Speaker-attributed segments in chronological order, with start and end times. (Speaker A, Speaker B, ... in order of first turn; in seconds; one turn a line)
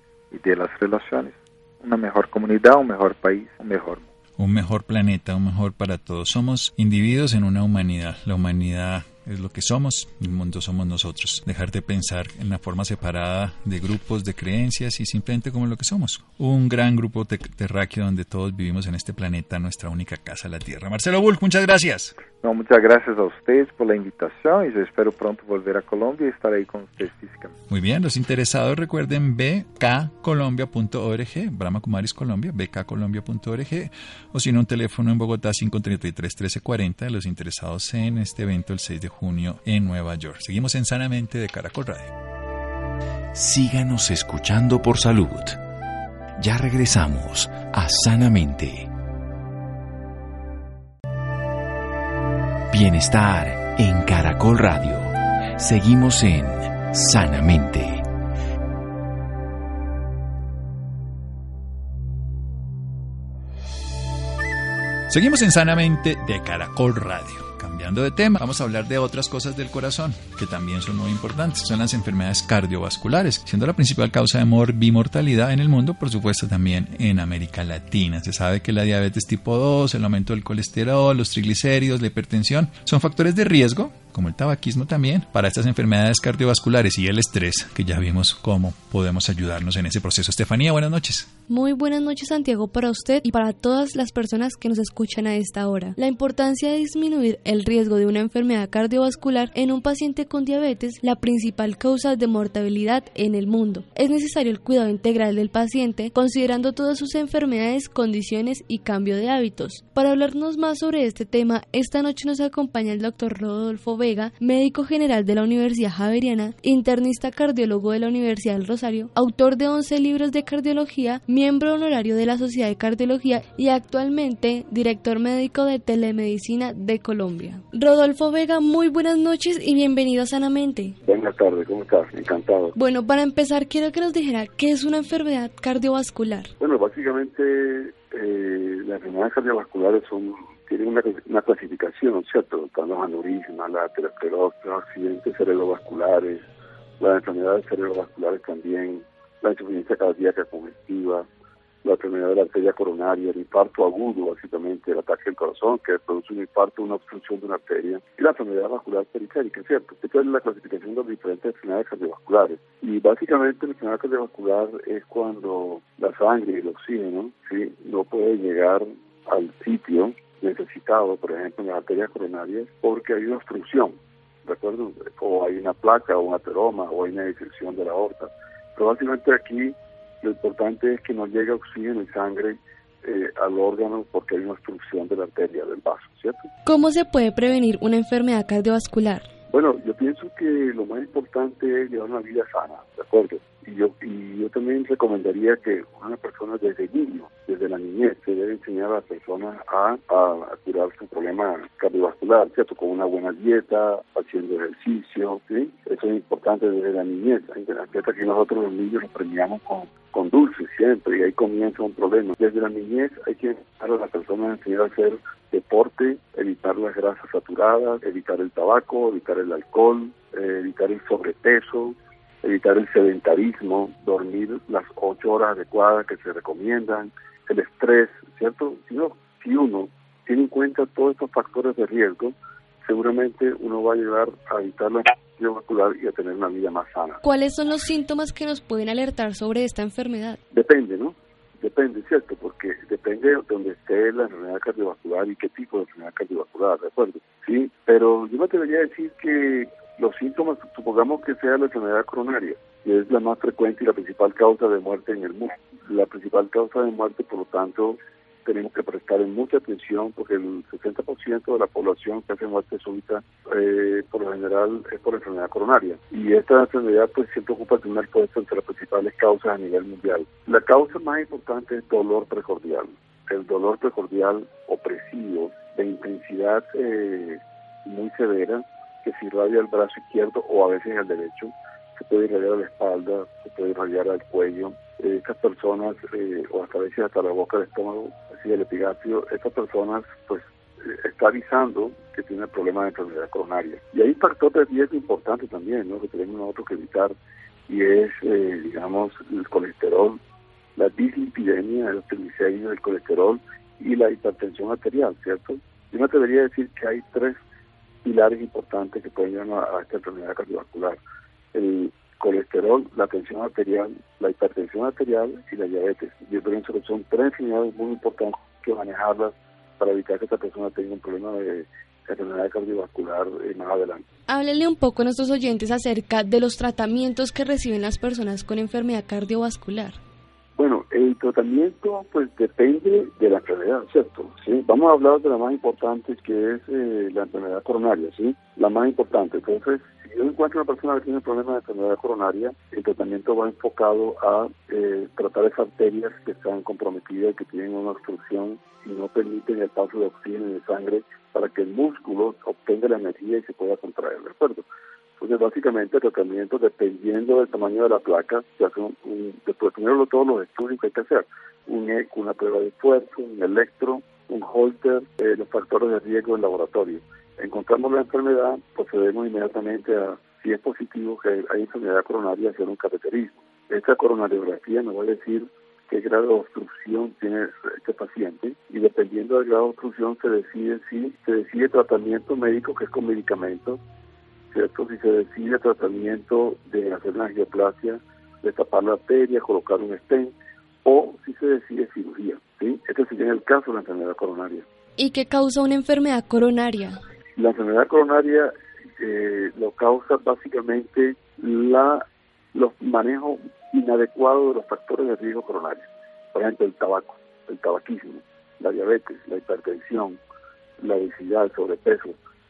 Speaker A: 0.3-4.0
Speaker B: 4.4-22.1
Speaker A: 22.4-27.5
Speaker B: 27.7-42.1
Speaker C: 43.3-45.6
Speaker C: 46.4-48.9
Speaker C: 52.7-58.1
Speaker B: 65.1-91.3
Speaker D: 91.5-130.9
Speaker E: 131.0-132.7
Speaker D: 132.7-136.5
Speaker E: 136.6-146.4
Speaker E: 147.0-151.3
Speaker E: 151.8-186.5
Speaker D: 186.7-189.2
Speaker E: 189.5-237.2
Speaker D: 237.2-240.4
Speaker E: 240.5-297.1
Speaker E: 297.7-300.2
Speaker E: 300.8-307.4
Speaker E: 308.0-311.0
Speaker E: 311.5-324.0
Speaker D: 324.3-330.0
Speaker E: 330.6-354.6
Speaker E: 355.2-383.8
Speaker E: 384.5-394.6
Speaker D: 395.0-397.0
Speaker E: 397.4-410.2
Speaker E: 410.8-412.2